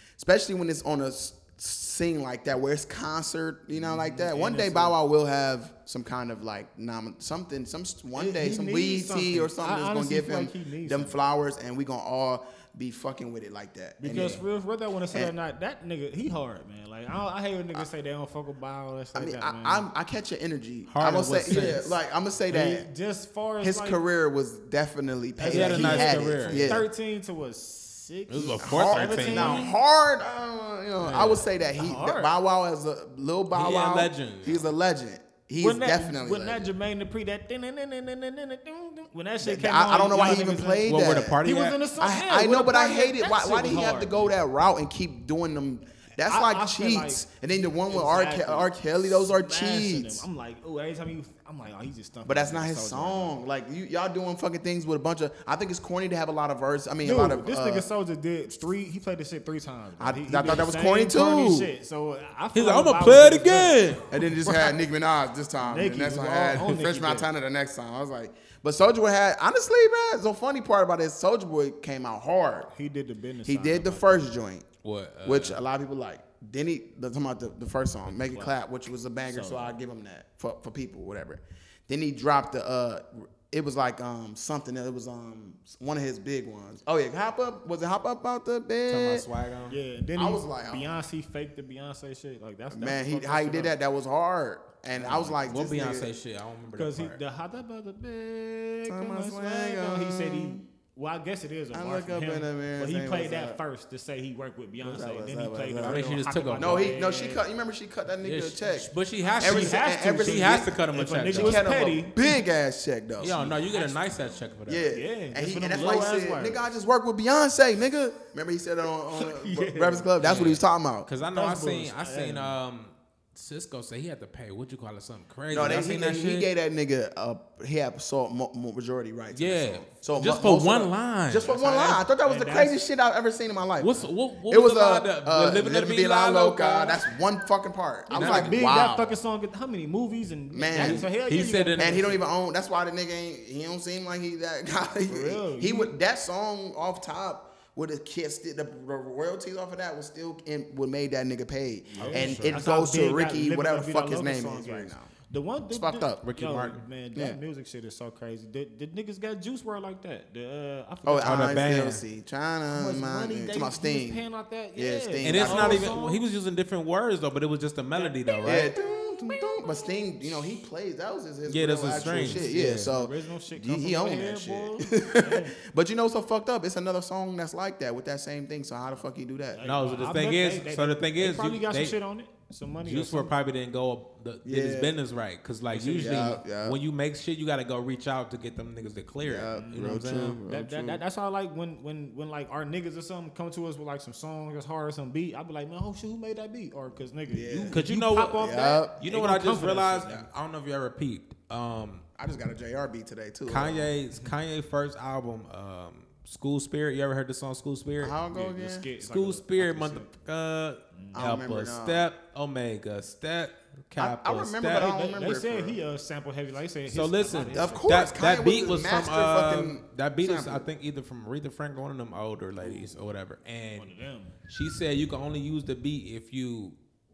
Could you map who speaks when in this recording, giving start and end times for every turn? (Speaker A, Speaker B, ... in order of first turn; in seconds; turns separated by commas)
Speaker A: 0.2-14.4, Speaker B: 3.7-5.0, Speaker B: 8.1-11.1, Speaker B: 14.0-19.9, Speaker C: 14.1-14.4, Speaker A: 19.1-22.9, Speaker C: 20.9-22.0, Speaker B: 22.5-24.0, Speaker A: 23.6-26.9, Speaker B: 25.4-29.7, Speaker C: 25.4-26.8, Speaker C: 28.3-29.7, Speaker A: 28.6-36.7, Speaker C: 31.0-31.4, Speaker B: 31.7-32.3, Speaker C: 33.5-34.7, Speaker B: 35.6-44.3, Speaker A: 39.4-41.4, Speaker C: 40.9-41.8, Speaker A: 42.0-50.2, Speaker B: 46.2-47.3, Speaker B: 47.8-53.4, Speaker A: 52.2-57.9, Speaker B: 57.0-63.9, Speaker A: 60.0-61.7, Speaker C: 62.5-64.1, Speaker A: 64.1-72.7, Speaker B: 64.4-64.8, Speaker B: 65.6-67.3, Speaker B: 72.7-74.2, Speaker A: 73.4-74.7, Speaker C: 74.8-75.6, Speaker A: 75.2-89.3, Speaker B: 78.1-78.5, Speaker B: 79.3-79.8, Speaker C: 88.9-89.8, Speaker B: 89.7-93.8, Speaker A: 90.1-91.0, Speaker A: 92.7-96.1, Speaker B: 94.9-95.4, Speaker C: 95.4-97.2, Speaker B: 96.7-107.4, Speaker A: 98.9-100.7, Speaker A: 101.7-103.6, Speaker A: 104.8-106.0, Speaker C: 105.8-106.9, Speaker A: 106.5-110.8, Speaker C: 108.2-111.7, Speaker B: 109.3-112.2, Speaker A: 111.3-113.4, Speaker C: 113.2-114.9, Speaker B: 113.2-116.7, Speaker A: 114.7-121.1, Speaker B: 119.1-120.6, Speaker C: 120.2-126.5, Speaker B: 121.3-122.6, Speaker A: 125.5-139.1, Speaker C: 129.3-131.9, Speaker B: 131.9-132.8, Speaker C: 133.8-137.0, Speaker B: 138.1-142.2, Speaker C: 138.1-138.6, Speaker A: 140.5-141.1, Speaker C: 140.7-142.1, Speaker A: 141.8-155.1, Speaker B: 145.1-145.9, Speaker B: 151.9-161.7, Speaker C: 152.0-152.6, Speaker A: 155.7-156.2, Speaker C: 156.2-156.8, Speaker A: 157.1-157.4, Speaker A: 161.0-164.2, Speaker C: 161.2-162.0, Speaker B: 162.7-166.2, Speaker A: 164.7-166.0, Speaker C: 165.2-168.7, Speaker B: 167.9-169.9, Speaker A: 168.4-179.6, Speaker C: 171.5-172.9, Speaker B: 171.9-175.6, Speaker B: 179.5-183.3, Speaker C: 179.6-182.0, Speaker C: 182.8-190.4, Speaker A: 184.4-185.0, Speaker B: 185.7-186.4, Speaker A: 186.0-186.8, Speaker A: 189.2-191.0, Speaker B: 189.5-189.9, Speaker B: 190.4-200.3, Speaker A: 197.3-197.8, Speaker C: 197.7-202.0, Speaker A: 198.4-198.9, Speaker A: 202.2-203.9, Speaker C: 203.5-208.1, Speaker A: 208.0-208.9, Speaker B: 208.3-210.1, Speaker C: 209.0-214.9, Speaker B: 210.9-211.2, Speaker A: 211.1-212.0, Speaker A: 214.0-215.8, Speaker B: 214.7-217.9, Speaker C: 216.9-223.9, Speaker A: 217.5-220.7, Speaker B: 222.6-222.9, Speaker B: 223.8-224.4, Speaker C: 224.5-226.8